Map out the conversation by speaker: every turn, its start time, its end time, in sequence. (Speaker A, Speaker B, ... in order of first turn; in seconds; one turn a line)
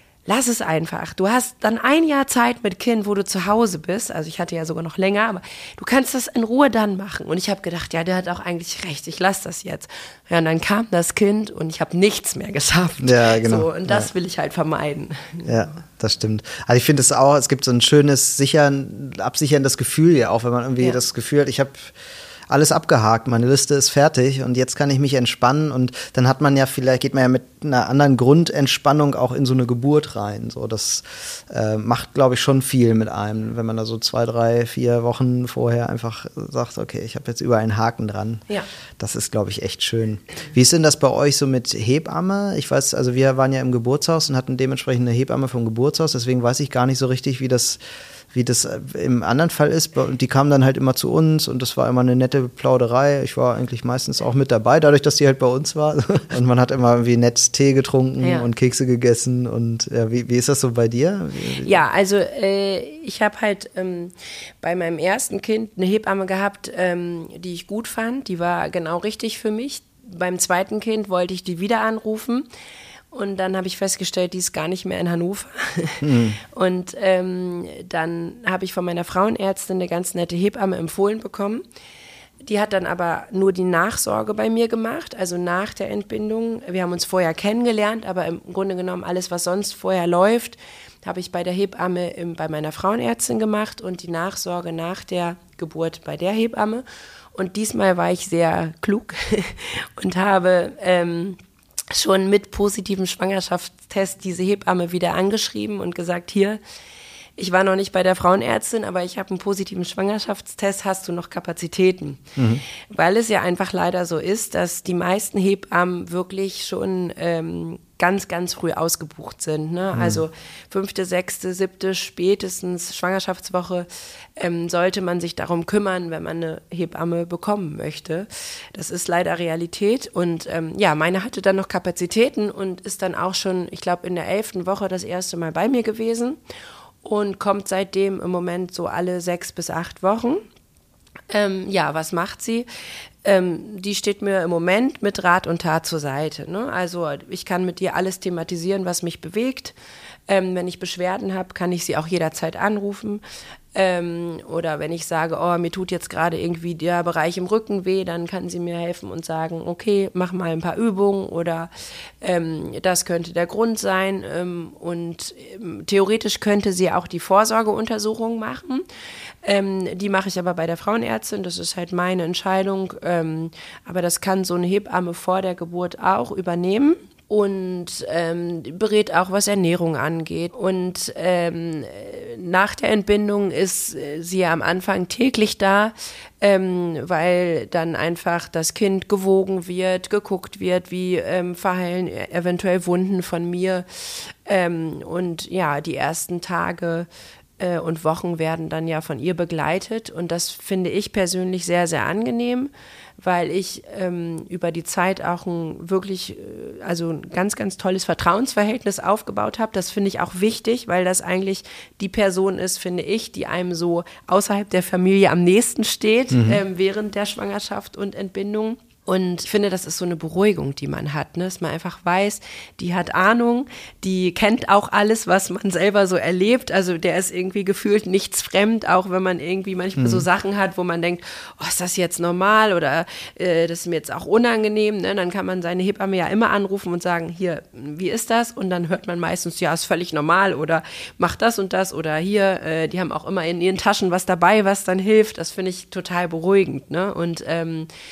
Speaker A: 0.2-15.7
Speaker B: 13.0-14.1
Speaker B: 15.4-21.9
Speaker B: 22.5-38.4
Speaker B: 39.0-47.8
Speaker B: 48.3-61.8
Speaker A: 58.2-58.5
Speaker A: 61.6-72.4
Speaker A: 73.1-81.6
Speaker B: 76.0-76.4
Speaker A: 82.4-96.8
Speaker A: 97.3-101.4
Speaker A: 101.9-106.6
Speaker A: 107.4-112.3
Speaker B: 112.4-112.6
Speaker A: 112.9-136.4
Speaker B: 119.9-120.2
Speaker A: 137.0-140.4
Speaker A: 141.3-142.7
Speaker A: 143.2-149.7
Speaker A: 150.3-153.2
Speaker A: 153.7-161.7
Speaker A: 162.2-168.8
Speaker A: 169.4-197.1
Speaker A: 197.6-247.9
Speaker B: 216.3-216.6
Speaker B: 230.0-230.2